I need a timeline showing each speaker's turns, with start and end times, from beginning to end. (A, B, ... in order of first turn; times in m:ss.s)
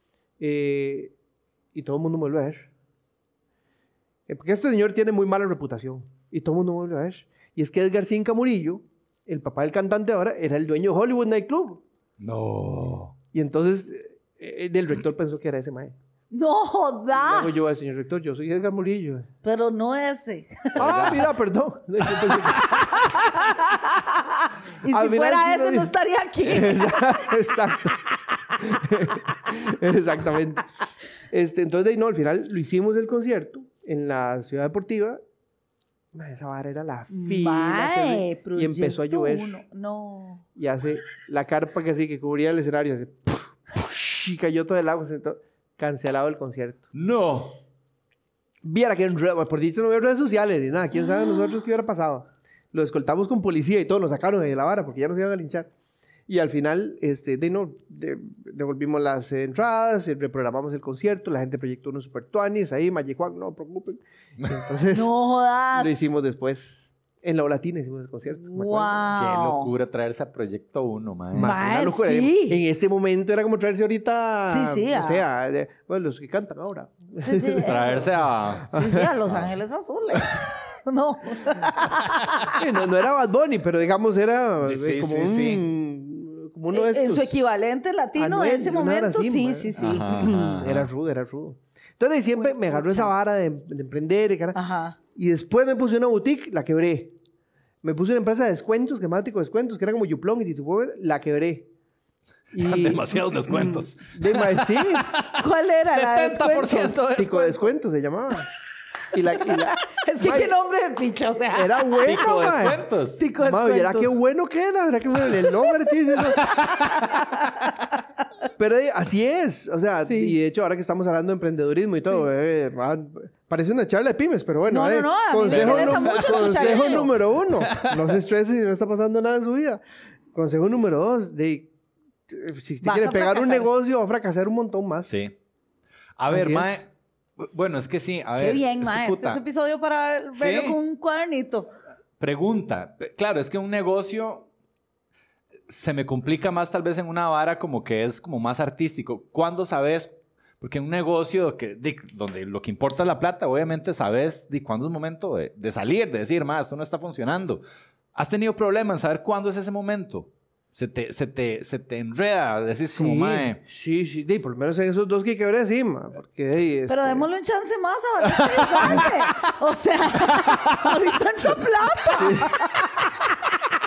0:00.4-0:01.1 A
0:01.7-0:02.7 A
0:04.3-0:11.8 A
0:12.2-0:13.1 B
0:13.3-0:15.9 A
0:16.3-0:17.7 C
0:17.1-0:19.3 A
0:19.4-0:20.9 C
0:20.8-0:21.3 B
0:20.8-0:22.9 A
0:22.2-0:27.5 C
0:24.8-0:30.6 A
0:28.0-0:28.5 C
0:31.3-0:35.2 A
0:36.1-0:39.6 A
0:37.1-0:40.4 C
0:40.6-0:46.8 A
0:46.9-0:47.6 B
0:48.6-0:55.7 A
0:51.0-0:51.4 C
0:56.3-1:05.1 A
1:04.9-1:05.9 C
1:05.7-1:09.0 A
1:08.3-1:09.7 C
1:09.1-1:11.6 B
1:11.3-1:19.1 A
1:11.4-1:12.6 C
1:14.5-1:15.2 C
1:17.2-1:18.0 C
1:17.6-1:18.7 B
1:18.7-1:22.6 C
1:19.2-1:19.5 B
1:22.5-1:27.3 A
1:24.6-1:25.6 B
1:26.7-1:30.1 C
1:28.2-1:34.6 A
1:29.8-1:30.9 B
1:32.4-1:33.1 C
1:34.5-1:35.0 C
1:35.1-1:37.1 A
1:37.8-1:41.7 A
1:42.5-1:45.1 A
1:42.6-1:47.7 B
1:45.4-1:47.0 C
1:47.1-1:48.5 A
1:49.1-1:50.5 A
1:49.3-1:52.3 C
1:51.5-1:52.8 A
1:52.0-1:53.2 B
1:53.2-1:54.1 C
1:53.4-1:56.6 A
1:55.6-1:58.0 C
1:56.4-1:56.9 B
1:58.6-2:09.8 A
2:00.0-2:00.4 C
2:04.7-2:07.1 C
2:05.5-2:06.9 B
2:07.6-2:08.1 B
2:10.3-2:11.7 A
2:12.3-2:15.1 A
2:12.8-2:13.7 C
2:15.1-2:15.3 B
2:16.2-2:19.4 B
2:16.3-2:16.8 A
2:18.4-2:21.7 C
2:20.3-2:20.8 B
2:22.2-2:24.5 B
2:25.7-2:37.6 B
2:38.1-2:43.6 B
2:42.8-2:47.3 A
2:46.9-2:53.7 C
2:48.3-2:49.3 B
2:50.3-2:50.9 B
2:52.1-2:52.6 A